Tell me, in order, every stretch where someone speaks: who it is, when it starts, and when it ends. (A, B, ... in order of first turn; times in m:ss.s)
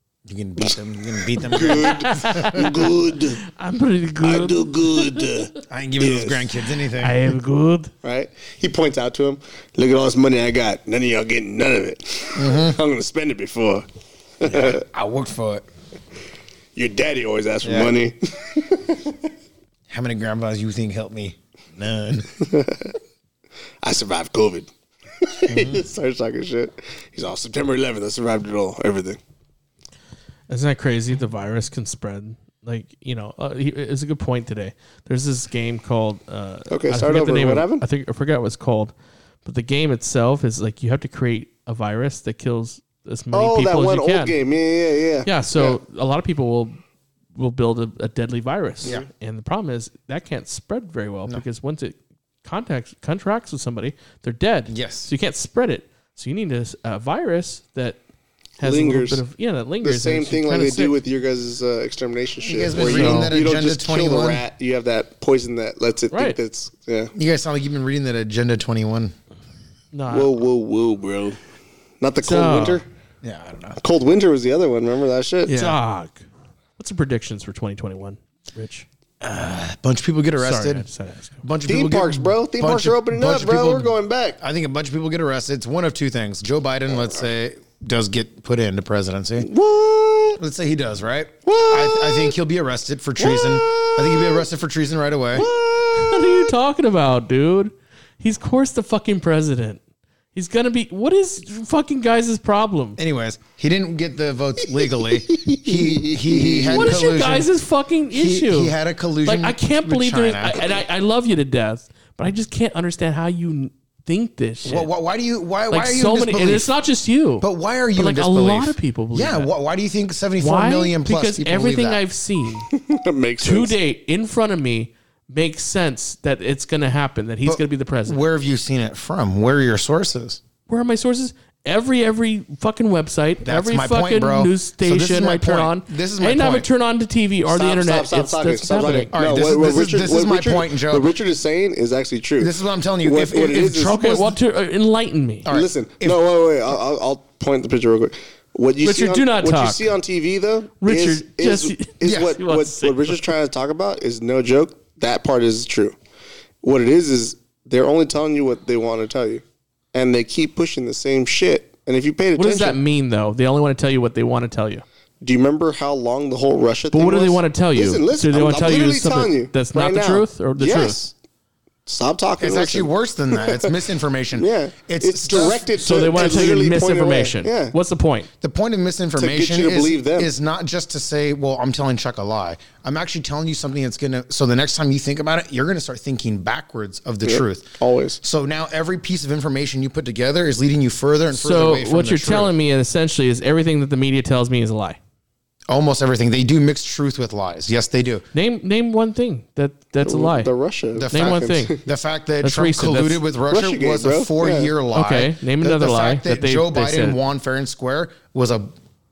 0:00.3-0:02.7 A
0:01.4-0:03.4 B
0:01.5-0:05.4 C
0:04.2-0:06.6 B
0:05.7-0:07.3 A
0:07.0-0:07.9 C
0:08.0-0:13.8 B
0:12.4-0:12.8 A
0:14.4-0:14.8 B
0:14.4-0:15.7 A
0:16.8-0:19.2 B
0:17.6-0:18.0 A
0:19.9-0:22.3 A
0:22.4-0:23.0 B
0:23.8-0:29.2 B
0:25.5-0:25.8 A
0:30.5-0:38.9 C
0:36.7-0:37.8 B
0:39.4-0:44.4 C
0:43.3-0:45.8 B
0:45.2-0:46.8 C
0:47.4-0:58.0 C
0:54.7-0:55.1 A
0:58.6-0:59.2 B
0:58.6-1:01.0 C
0:59.8-1:07.1 B
1:02.4-1:04.4 A
1:02.8-1:03.3 C
1:06.1-1:06.4 C
1:07.2-1:09.1 A
1:09.9-1:10.4 C
1:10.1-1:11.4 B
1:12.0-1:12.8 B
1:12.2-1:12.8 C
1:13.2-1:13.8 A
1:13.8-1:15.5 B
1:15.5-1:15.8 A
1:15.5-1:16.3 C
1:16.8-1:18.9 C
1:19.2-1:20.9 A
1:20.4-1:21.4 C
1:21.4-1:29.5 A
1:21.7-1:24.4 B
1:29.4-1:30.4 B
1:30.4-1:35.5 A
1:31.5-1:32.4 B
1:33.2-1:34.5 B
1:35.4-1:36.5 B
1:35.9-1:39.8 C
1:40.3-1:43.0 C
1:43.0-1:47.5 A
1:45.0-1:47.0 B
1:46.7-1:48.7 C
1:48.1-1:50.7 A
1:49.2-1:54.9 C
1:54.6-1:56.7 A
1:55.7-1:59.5 C
1:57.4-2:02.0 A
2:00.4-2:02.7 C
2:02.7-2:03.8 B
2:03.4-2:08.2 C
2:07.4-2:10.4 A
2:10.7-2:19.1 C
2:13.4-2:16.7 A
2:17.5-2:24.0 B
2:19.1-2:21.1 A
2:22.4-2:24.4 A
2:23.8-2:25.5 C
2:25.4-2:26.2 A
2:25.5-2:36.0 B
2:28.8-2:29.9 C
2:30.8-2:33.2 C
2:32.0-2:32.4 A
2:36.6-2:39.4 B
2:39.9-2:42.8 B
2:42.4-2:44.8 C
2:45.2-2:51.1 B
2:46.9-2:51.0 C
2:51.9-2:53.8 B
2:52.4-2:55.7 A
2:54.4-2:57.8 B
2:55.8-2:58.3 C
2:58.4-3:12.5 A
2:59.2-3:00.3 B
3:07.2-3:08.2 B
3:11.3-3:15.0 C
3:15.7-3:18.2 A
3:18.3-3:20.5 C
3:20.0-3:21.8 B
3:21.0-3:28.7 A
3:21.1-3:21.8 C
3:22.4-3:23.2 C
3:23.5-3:24.7 B
3:24.9-3:27.2 C